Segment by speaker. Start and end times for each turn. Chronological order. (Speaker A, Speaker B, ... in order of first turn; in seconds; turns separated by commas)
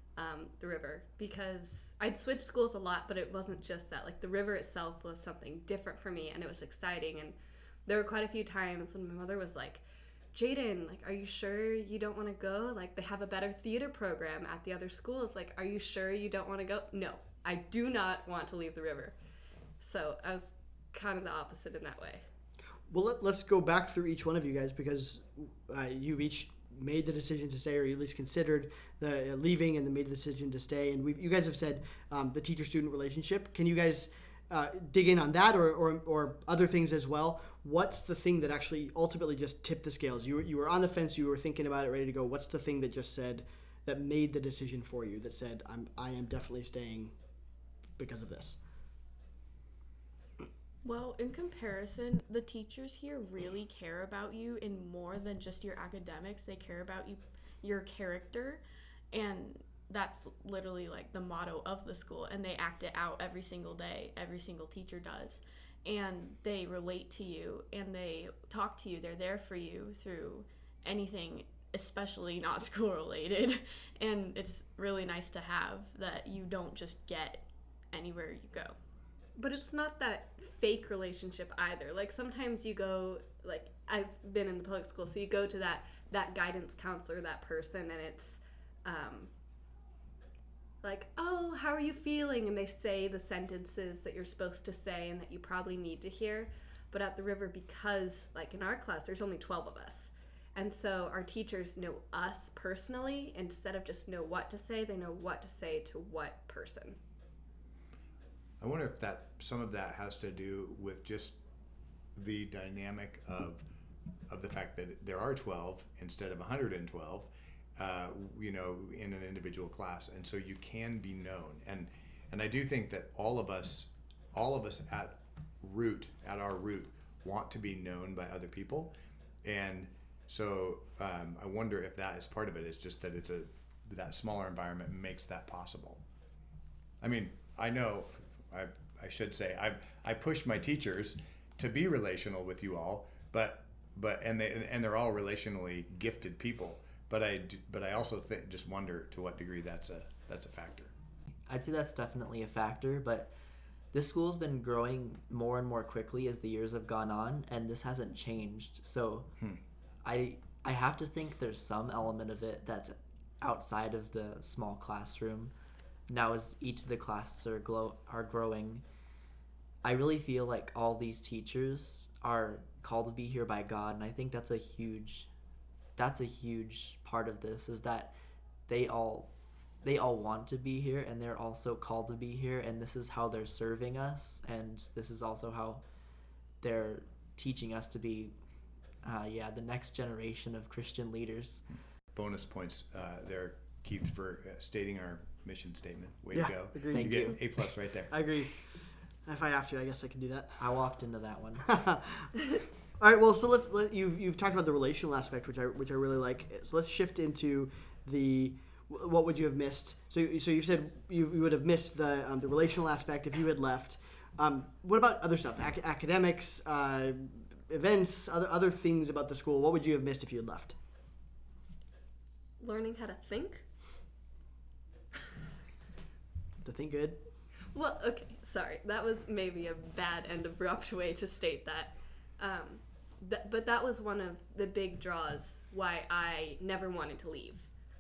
Speaker A: 0.2-19.1, Speaker A: 19.8-22.2, Speaker B: 22.9-47.1, Speaker B: 48.0-48.6, Speaker C: 50.8-78.8, Speaker A: 79.4-89.3, Speaker A: 90.8-107.0, Speaker D: 108.6-111.4, Speaker D: 112.2-113.7, Speaker D: 114.3-136.0, Speaker D: 137.0-150.9, Speaker E: 151.5-153.3, Speaker E: 153.9-159.3, Speaker E: 160.0-165.5, Speaker E: 166.1-168.8, Speaker E: 169.8-175.3, Speaker E: 176.0-178.1, Speaker E: 178.7-179.3, Speaker E: 179.8-185.8, Speaker E: 186.6-188.3, Speaker E: 189.0-191.7, Speaker D: 192.1-198.1, Speaker B: 196.3-197.4, Speaker E: 196.9-197.4, Speaker B: 198.1-198.7, Speaker B: 199.3-200.6, Speaker E: 200.6-201.7, Speaker B: 201.7-202.4, Speaker B: 203.0-220.8, Speaker A: 222.6-223.7, Speaker B: 226.6-227.2, Speaker A: 227.7-237.7